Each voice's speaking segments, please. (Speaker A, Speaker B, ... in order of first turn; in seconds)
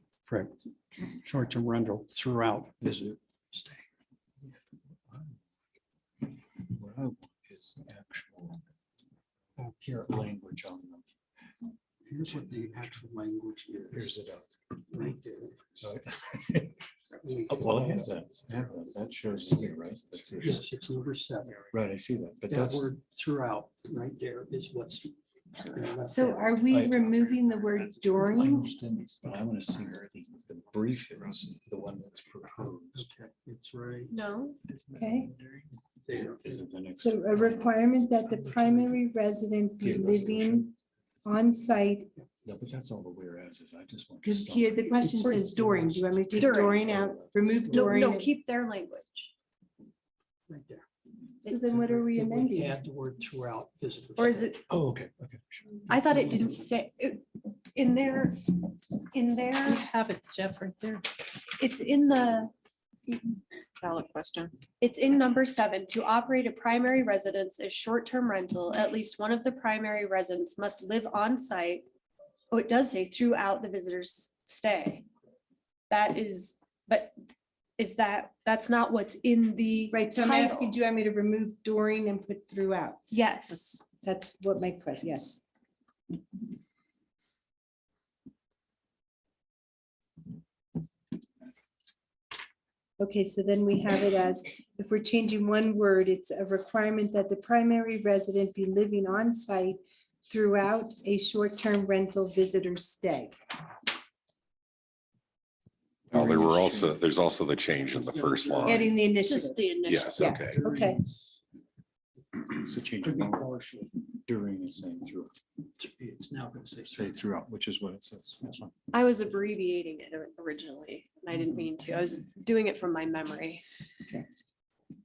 Speaker A: 0.3-3.8, 9.6-10.3, 12.1-14.1, 14.9-15.9, 17.2-18.1, 20.4-21.6, 22.5-26.6, 32.6-34.2, 36.0-36.4, 45.0-46.1, 47.6-48.0, 50.5-50.8, 51.7-54.5, 108.2-108.9, 110.5-111.4, 113.0-114.0, 115.8-117.1
Speaker B: 5.1-5.3, 6.7-8.6, 10.1-11.1, 13.9-14.5, 15.8-16.7, 17.5-20.6, 21.7-22.9, 26.7-27.0, 28.2-33.1, 36.2-38.9, 39.8-40.7, 42.4-44.9, 46.4-47.4, 54.7-56.0, 106.1-107.0, 112.5-113.4, 114.2-115.3, 116.9-118.7
Speaker C: 26.1-28.7, 35.0-35.3, 37.0-40.7, 41.2-42.1, 44.2-48.3, 51.4-52.7, 79.9-83.2, 84.0-85.4, 93.0-103.3, 108.6-111.0
Speaker D: 34.1-34.6, 46.3-46.9, 47.7-49.3, 54.2-54.6, 55.9-59.8, 61.6-62.5, 63.1-71.8, 72.5-75.0, 75.9-77.2, 77.8-80.7, 83.1-83.8, 109.2-110.3, 118.9-123.6
Speaker E: 59.7-61.1, 64.0-64.5
Speaker F: 106.1-108.7, 109.8-110.6